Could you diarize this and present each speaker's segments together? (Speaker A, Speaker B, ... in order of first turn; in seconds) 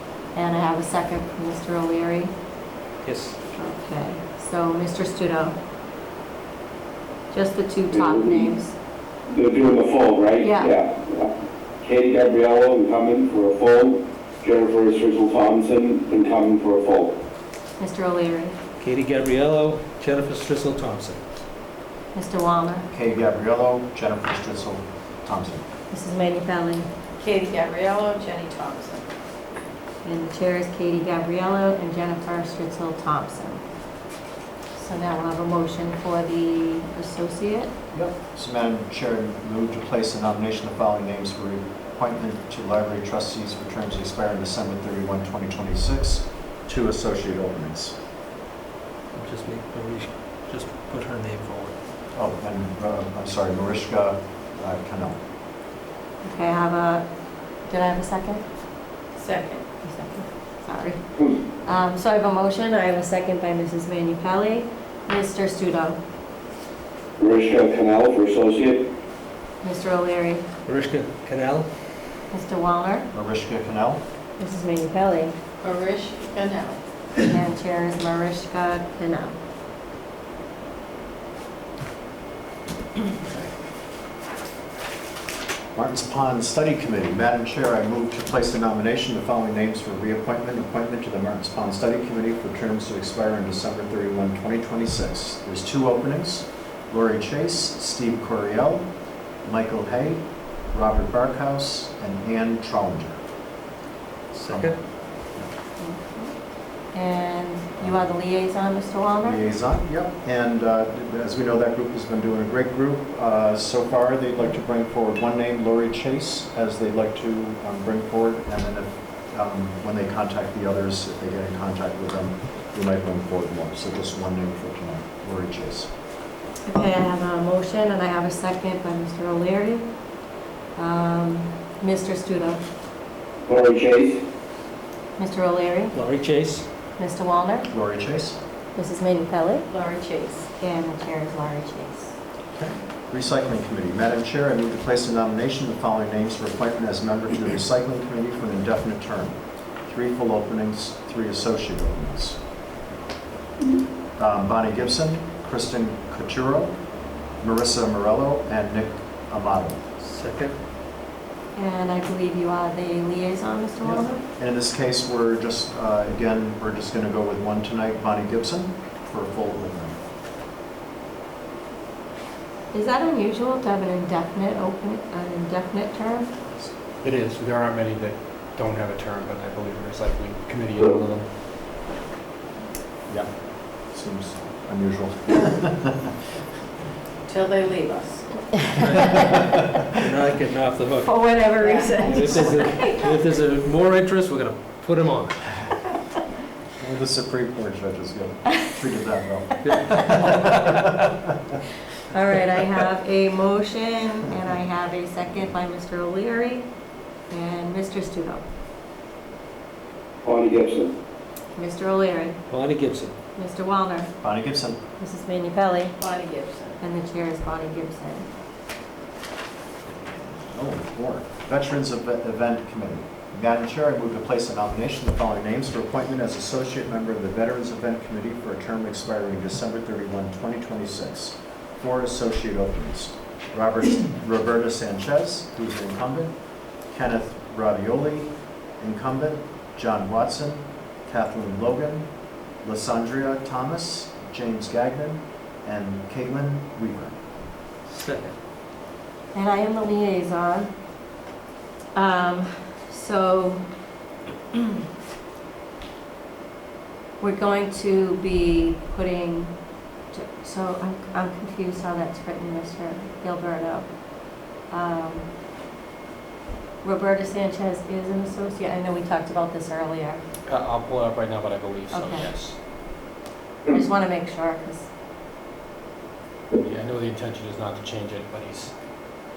Speaker A: 0.3-2.3, 3.5-5.5, 7.3-8.7, 10.4-10.7, 17.8-18.6, 22.1-22.9, 25.9-26.9, 30.0-33.6, 34.8-37.7, 56.2-57.1, 57.7-58.4, 59.8-61.0, 61.6-66.0, 69.6-70.5, 72.3-73.1, 74.4-75.3, 77.2-79.4, 105.8-106.3, 106.9-109.4, 126.7-129.9, 130.8-132.6, 135.2-136.0, 137.0-137.7, 138.7-139.7, 140.6-142.1, 161.6-164.2, 172.7-176.3, 191.0-193.0, 202.1-206.7, 207.3-208.4, 211.6-212.4, 213.4-214.1, 215.0-216.0, 216.8-218.3, 249.3-250.7, 251.9-253.6, 257.2-259.5, 260.1-263.9, 264.7-265.3, 266.8-270.2, 271.9-272.3, 273.7-274.9
Speaker B: 3.0-3.4, 18.8-21.2, 49.1-51.8, 70.7-71.7, 104.3-104.8, 135.9-136.7, 160.0-160.6, 188.8-191.2, 192.0-195.4, 199.6-200.8, 212.5-213.1, 247.9-248.3
Speaker C: 7.9-8.5, 9.3-17.2, 67.2-68.9, 133.5-134.3, 210.2-210.9
Speaker D: 22.9-25.6, 37.9-48.0, 52.1-55.2, 73.1-74.0, 85.8-98.9, 99.4-103.2, 104.5-104.7, 109.2-125.9, 137.7-138.4, 142.6-152.4, 154.2-156.8, 157.4-159.8, 163.8-170.0, 183.9-186.1, 196.8-201.3, 214.2-214.8, 220.0-236.3, 236.9-242.1, 242.6-247.2
Speaker E: 27.2-29.1, 59.2-59.6, 75.6-76.8, 139.7-140.5, 187.3-188.5, 191.6-193.0, 216.0-216.8
Speaker F: 177.0-181.3, 270.5-272.6, 276.5-278.7